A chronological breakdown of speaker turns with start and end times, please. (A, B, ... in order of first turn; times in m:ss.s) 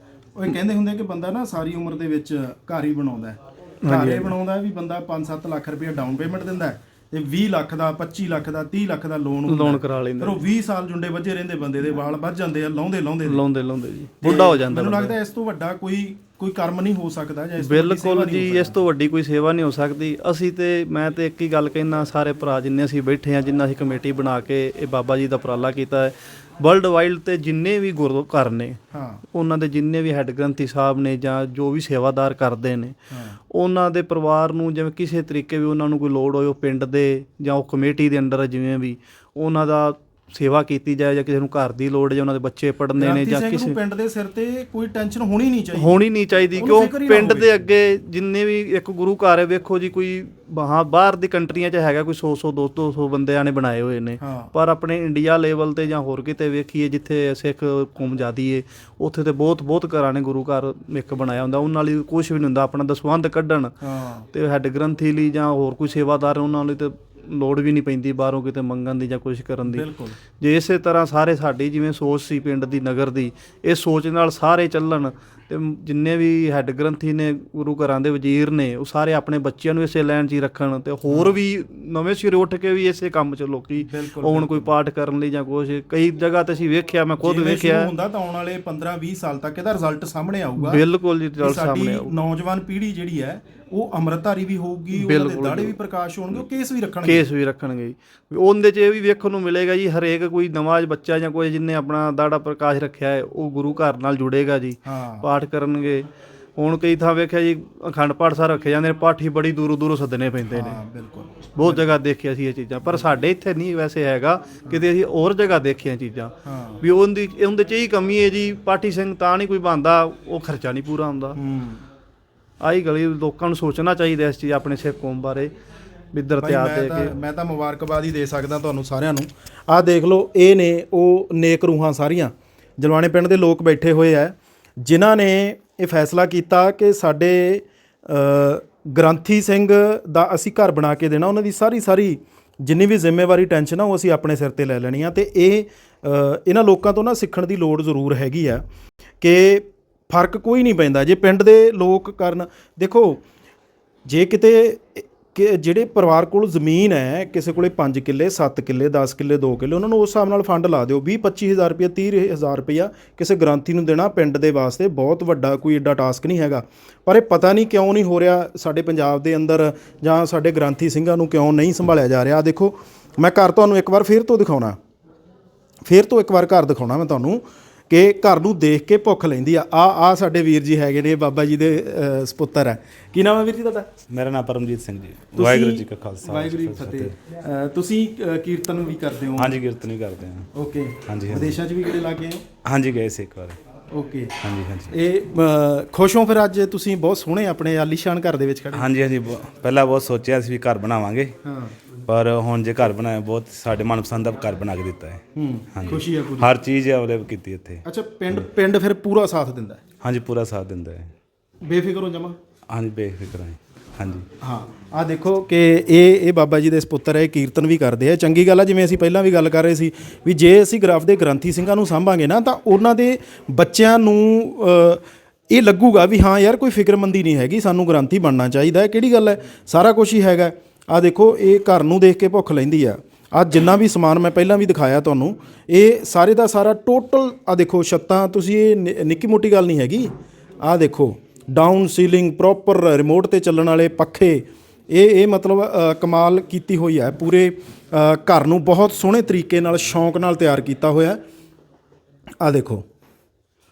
0:00.4-0:13.4 A
0:03.8-0:04.3 B
0:09.5-0:10.5 B
0:13.2-0:15.1 B
0:14.2-0:18.8 A
0:17.6-0:43.8 B
0:28.9-0:29.2 A
0:33.1-0:33.4 A
0:43.0-0:46.0 A
0:45.7-1:03.8 B
0:46.5-0:47.5 A
0:54.2-0:54.5 A
1:03.8-1:04.2 A
1:04.3-1:27.9 B
1:09.6-1:10.2 A
1:21.1-1:21.4 A
1:23.8-1:24.7 A
1:27.2-1:30.8 A
1:30.6-1:32.1 B
1:31.4-1:37.2 A
1:34.9-1:35.8 B
1:37.0-1:50.8 B
1:44.8-1:45.3 A
1:50.5-1:51.8 A
1:51.5-2:01.4 B
1:56.4-1:56.8 A
2:01.4-2:01.8 A
2:02.6-2:05.5 B
2:06.1-2:07.1 B
2:06.4-2:28.6 A
2:29.2-2:33.2 A
2:34.0-2:54.8 A
2:55.8-3:03.9 A
3:04.1-3:07.2 C
3:05.4-3:09.6 A
3:09.4-3:10.5 C
3:10.5-3:12.5 A
3:11.0-3:11.6 C
3:12.6-3:13.6 C
3:13.9-3:14.3 A
3:14.4-3:15.0 C
3:14.9-3:18.9 A
3:18.7-3:21.4 C
3:21.4-3:21.8 A
3:22.0-3:28.5 C
3:25.4-3:26.5 A
3:27.8-3:29.8 A
3:30.0-3:31.1 C
3:31.6-3:32.4 A
3:32.7-3:34.3 C
3:34.4-4:11.2 A
4:12.4-4:12.8 A